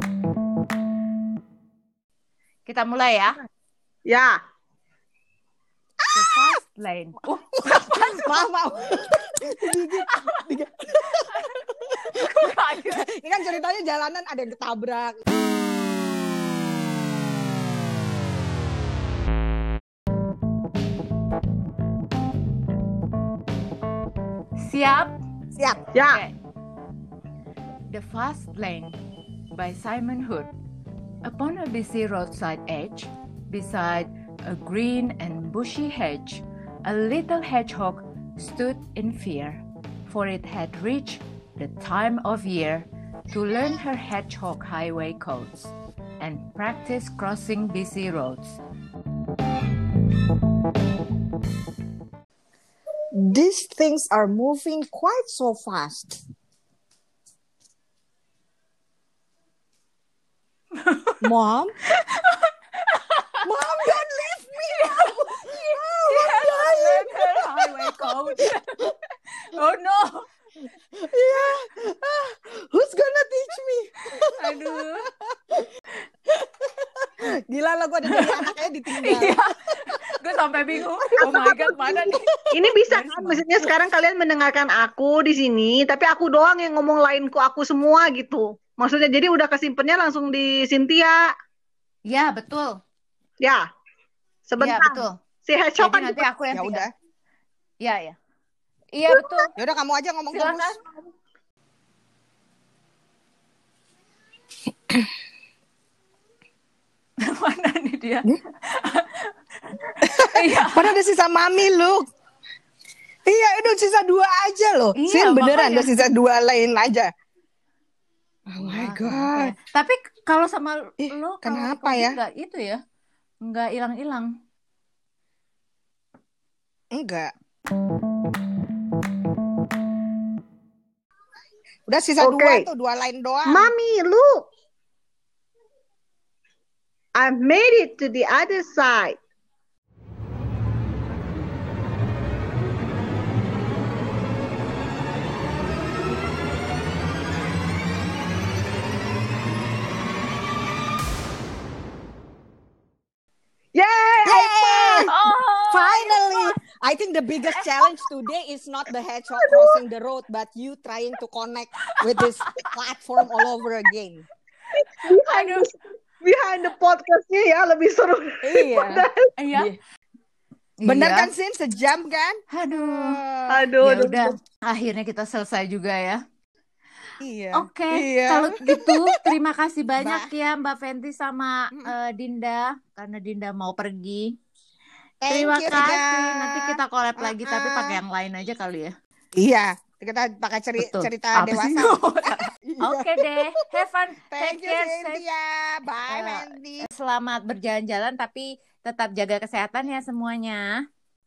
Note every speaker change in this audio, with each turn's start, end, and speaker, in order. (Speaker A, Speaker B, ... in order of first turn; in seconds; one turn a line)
Speaker A: 2.6-3.4
Speaker B: 6.1-6.5
Speaker A: 6.1-8.5
Speaker B: 7.8-11.6
Speaker A: 10.0-10.4
Speaker A: 11.1-13.1
Speaker B: 12.8-15.2
Speaker A: 24.6-25.1
Speaker A: 26.1-26.3
Speaker A: 27.9-29.0
Speaker A: 29.5-30.5
Speaker A: 31.2-48.6
Speaker B: 53.1-56.2
Speaker A: 60.7-61.2
Speaker B: 61.2-61.7
Speaker A: 61.9-63.4
Speaker B: 63.4-68.5
Speaker A: 64.7-70.3
Speaker B: 70.9-75.7
Speaker A: 74.3-75.1
Speaker B: 76.6-79.3
Speaker A: 78.1-83.5
Speaker B: 81.1-82.2
Speaker C: 82.5-91.2
Speaker A: 92.0-92.8
Speaker C: 94.5-94.9
Speaker A: 94.6-95.2
Speaker C: 95.5-96.1
Speaker A: 95.8-96.9
Speaker B: 96.5-96.9
Speaker A: 97.8-98.2
Speaker A: 98.9-99.5
Speaker B: 99.6-100.8
Speaker A: 100.3-100.8
Speaker A: 107.2-110.9
Speaker B: 110.0-112.0
Speaker B: 113.2-117.1
Speaker A: 115.0-116.1
Speaker B: 118.5-119.5
Speaker A: 118.6-122.8
Speaker B: 121.0-122.2
Speaker A: 123.4-124.3
Speaker B: 126.9-127.3
Speaker B: 131.9-133.7
Speaker C: 132.2-132.6
Speaker C: 133.5-134.3
Speaker C: 137.2-139.1
Speaker C: 153.7-154.6
Speaker B: 154.2-155.1
Speaker A: 155.0-156.5
Speaker B: 155.7-164.2
Speaker C: 165.0-165.7
Speaker A: 165.2-165.7
Speaker C: 166.2-169.2
Speaker B: 168.4-169.8
Speaker A: 169.4-169.7
Speaker A: 170.8-171.3
Speaker B: 170.8-173.6
Speaker A: 172.5-173.2
Speaker C: 173.5-174.3
Speaker A: 173.8-176.2
Speaker B: 177.2-179.2
Speaker A: 177.5-184.3
Speaker B: 180.0-180.3
Speaker B: 185.2-188.0
Speaker A: 185.3-188.9
Speaker B: 189.3-193.3
Speaker A: 190.8-195.2
Speaker B: 194.3-196.8
Speaker A: 196.1-200.8